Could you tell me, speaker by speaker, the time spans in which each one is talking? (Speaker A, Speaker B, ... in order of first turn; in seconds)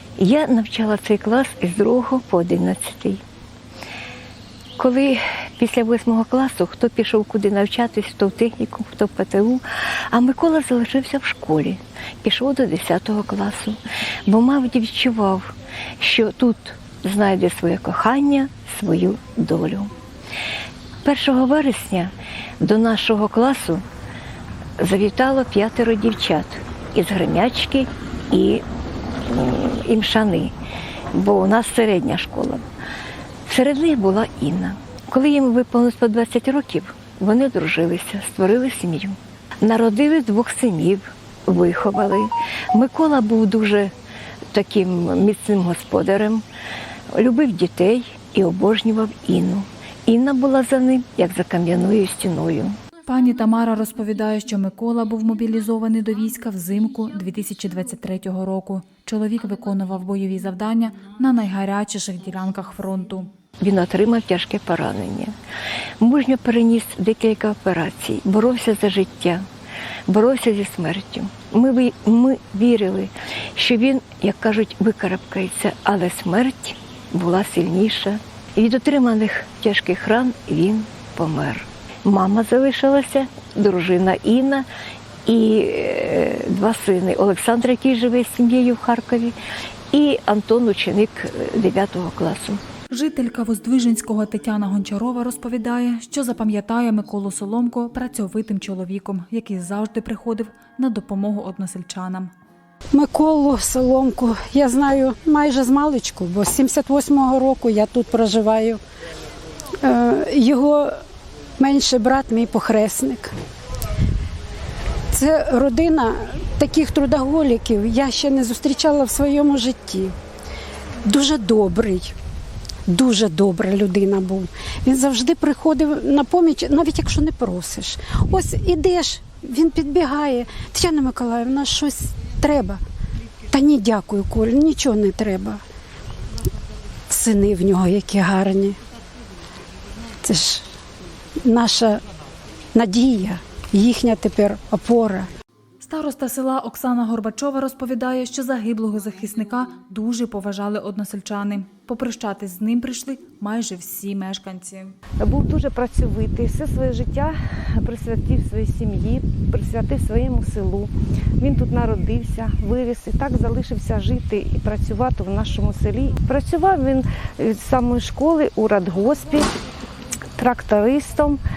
Speaker A: 0.2-3.2, 4.8-19.9, 21.0-23.8, 24.8-28.6, 29.3-30.5, 31.1-32.6, 33.5-43.9, 44.5-46.4, 47.1-52.8, 63.6-65.3, 66.0-69.5, 70.1-84.7, 85.3-89.4, 89.9-92.6
Speaker B: 53.1-63.3, 92.9-102.3, 145.8-154.9
Speaker C: 102.9-108.8, 109.8-111.0, 111.6-113.3, 115.1-120.1, 121.0-122.2, 122.9-132.8, 133.5-135.6, 137.1-138.8, 140.2-140.7, 141.4-142.0, 142.7-145.3
Speaker D: 155.2-169.5, 170.4-171.4